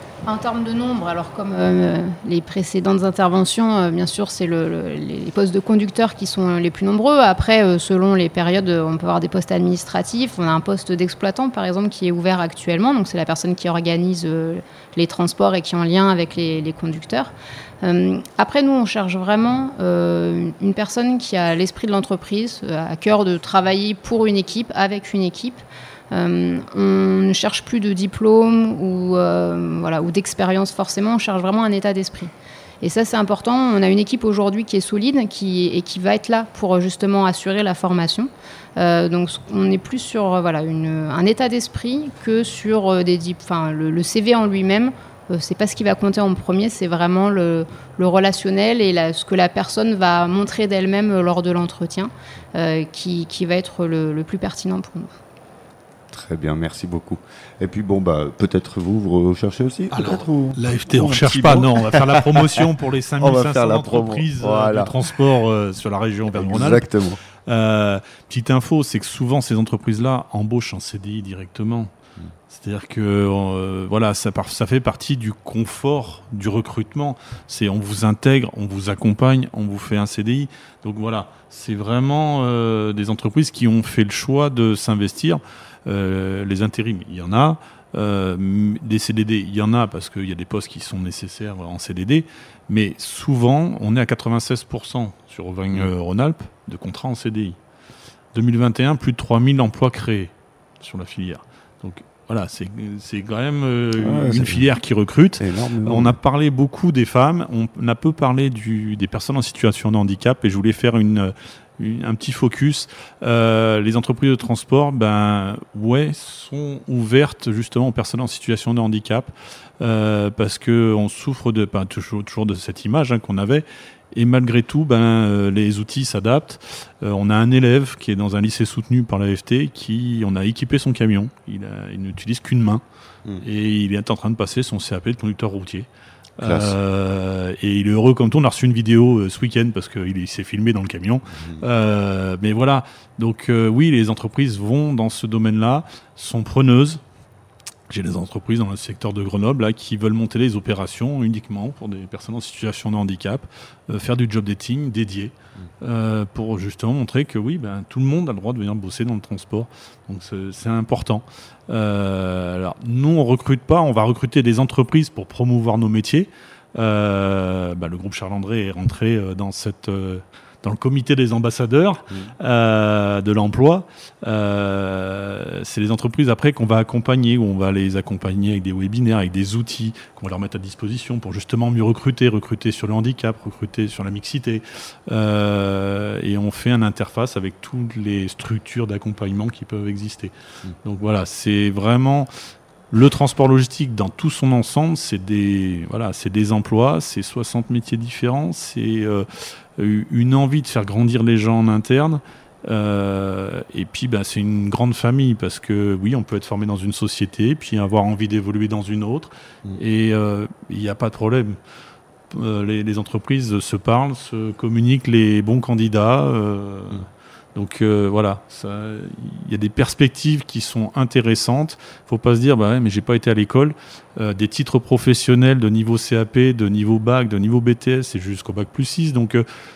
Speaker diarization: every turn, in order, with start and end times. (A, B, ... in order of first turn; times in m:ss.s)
0:00.2-0:55.1 A
0:56.1-1:05.0 B
0:59.9-1:06.9 C
1:06.3-1:07.2 B
1:07.4-1:11.9 C
1:12.5-1:37.6 C
1:38.3-2:12.8 C
1:44.0-1:44.6 B
1:45.4-1:46.2 B
2:13.4-2:27.0 C
2:16.4-2:16.8 B
2:21.4-2:21.6 B
2:27.9-3:12.3 C
3:12.9-3:31.6 C
3:32.3-3:49.4 C